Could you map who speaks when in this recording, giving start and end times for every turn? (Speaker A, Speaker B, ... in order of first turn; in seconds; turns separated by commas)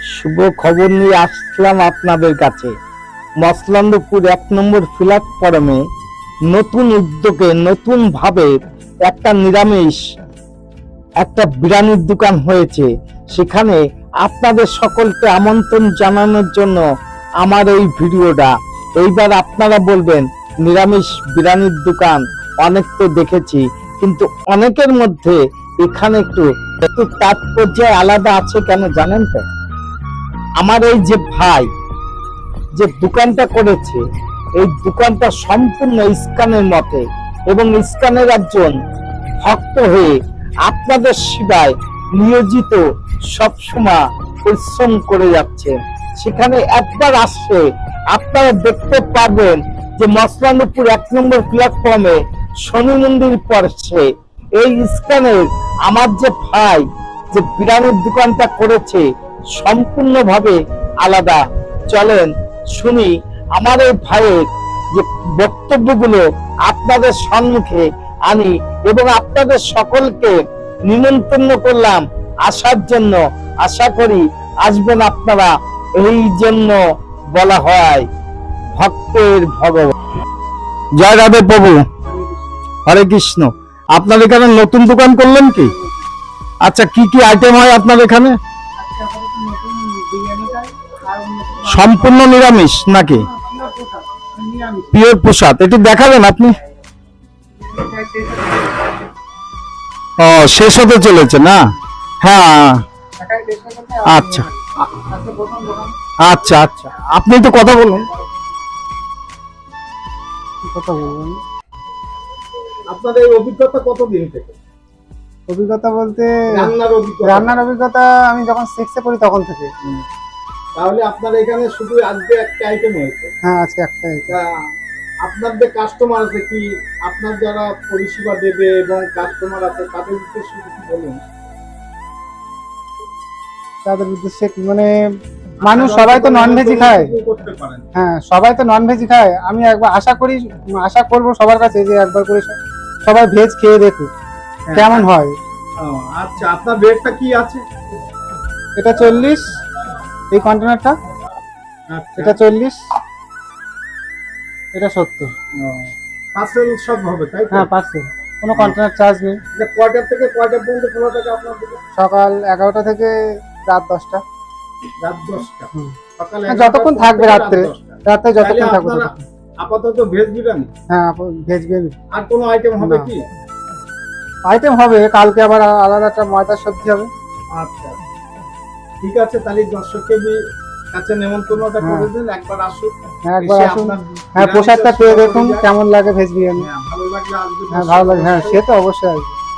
Speaker A: 0.1-2.7, Speaker A: 3.4-5.8, Speaker A: 6.5-8.5, Speaker A: 9.0-10.0, Speaker A: 11.2-16.8, Speaker A: 17.4-29.4, Speaker A: 30.6-31.7, Speaker A: 32.8-34.0, Speaker A: 34.6-38.8, Speaker A: 39.4-40.1, Speaker A: 40.6-42.8, Speaker A: 43.3-59.0, Speaker A: 59.5-76.8, Speaker A: 77.3-78.1, Speaker A: 78.7-79.9, Speaker A: 81.0-81.8, Speaker B: 82.1-82.4, Speaker A: 82.8-85.7, Speaker B: 85.6-85.9, Speaker A: 86.6-88.4, Speaker B: 88.8-92.3, Speaker A: 91.6-93.2, Speaker B: 92.9-94.9, Speaker A: 94.9-96.5, Speaker B: 97.6-98.9, Speaker A: 100.2-101.6, Speaker A: 102.2-102.8, Speaker B: 103.2-105.9, Speaker A: 104.1-104.5, Speaker A: 106.2-108.0, Speaker B: 110.6-111.4, Speaker C: 112.9-114.6, Speaker B: 115.5-116.7, Speaker C: 116.5-117.5, Speaker B: 117.2-119.7, Speaker C: 120.8-123.3, Speaker B: 123.4-124.3, Speaker C: 124.3-124.5, Speaker C: 125.2-131.2, Speaker B: 133.8-134.9, Speaker B: 135.6-137.1, Speaker C: 135.6-137.8, Speaker B: 137.9-144.1, Speaker C: 144.7-145.1, Speaker B: 144.7-145.3, Speaker C: 145.8-147.6, Speaker B: 148.8-149.6, Speaker B: 150.3-150.9, Speaker C: 151.9-152.4, Speaker B: 152.2-152.8, Speaker B: 154.7-155.3, Speaker C: 155.6-157.7, Speaker B: 157.5-159.4, Speaker C: 159.5-161.8, Speaker B: 162.0-164.2, Speaker C: 165.0-170.7, Speaker B: 166.5-169.2, Speaker B: 170.9-172.0, Speaker C: 172.1-173.2, Speaker B: 172.8-173.1, Speaker B: 174.4-177.1, Speaker C: 177.5-178.0, Speaker C: 179.0-180.4, Speaker C: 180.9-185.7, Speaker B: 181.8-182.1, Speaker B: 183.3-186.7, Speaker C: 186.6-188.6, Speaker B: 187.7-189.3